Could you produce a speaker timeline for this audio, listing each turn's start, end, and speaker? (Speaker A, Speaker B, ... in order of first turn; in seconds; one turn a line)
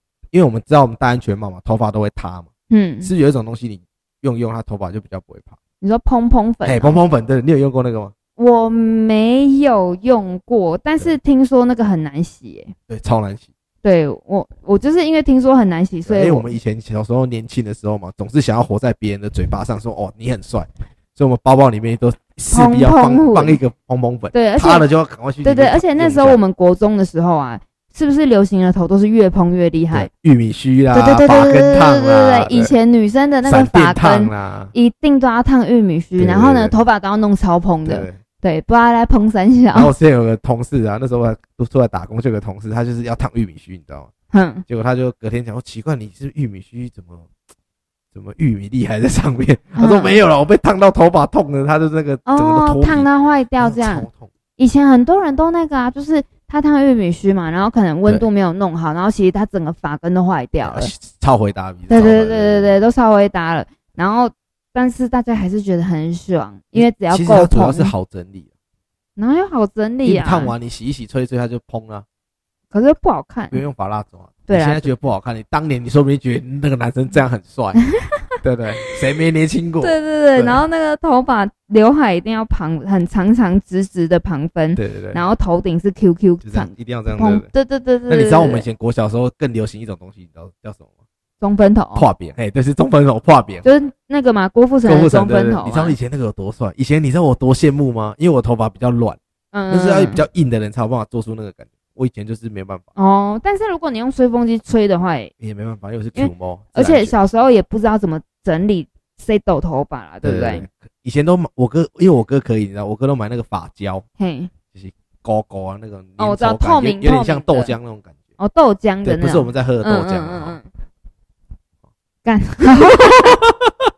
Speaker A: 0.3-2.5
Speaker B: 2.7-3.1
Speaker A: 3.0-5.6
Speaker B: 5.8-7.0
Speaker A: 6.6-8.1
Speaker B: 8.4-12.7
Speaker A: 12.9-13.5
Speaker B: 13.8-16.5
Speaker A: 16.0-26.4
Speaker B: 22.5-23.6
Speaker B: 24.3-24.9
Speaker B: 25.4-30.1
Speaker A: 29.9-32.7
Speaker B: 30.9-39.9
Speaker A: 33.4-34.7
Speaker A: 36.2-36.8
Speaker A: 37.8-38.2
Speaker A: 39.7-44.1
Speaker B: 44.3-44.6
Speaker A: 44.6-47.3
Speaker A: 48.1-53.1
Speaker B: 49.8-50.2
Speaker B: 52.2-60.9
Speaker A: 53.6-54.3
Speaker A: 60.6-62.8
Speaker B: 61.9-67.9
Speaker A: 66.7-68.5
Speaker B: 69.2-70.5
Speaker A: 70.0-72.0
Speaker B: 72.7-73.6
Speaker A: 73.5-77.8
Speaker B: 74.5-74.9
Speaker B: 77.9-78.2
Speaker A: 78.4-80.6
Speaker B: 79.8-88.7
Speaker A: 84.7-85.2
Speaker A: 86.4-87.5
Speaker A: 88.1-90.9
Speaker B: 91.4-92.0
Speaker A: 91.9-93.7
Speaker B: 93.6-96.0
Speaker A: 94.8-99.2
Speaker B: 99.5-100.2
Speaker A: 99.7-102.9
Speaker B: 103.0-105.3
Speaker A: 105.4-107.2
Speaker B: 106.2-110.7
Speaker A: 110.2-114.0
Speaker B: 114.2-114.5
Speaker A: 114.7-118.2
Speaker B: 116.2-117.7
Speaker B: 118.4-120.7
Speaker A: 119.0-120.6
Speaker B: 122.2-123.4
Speaker A: 122.9-123.9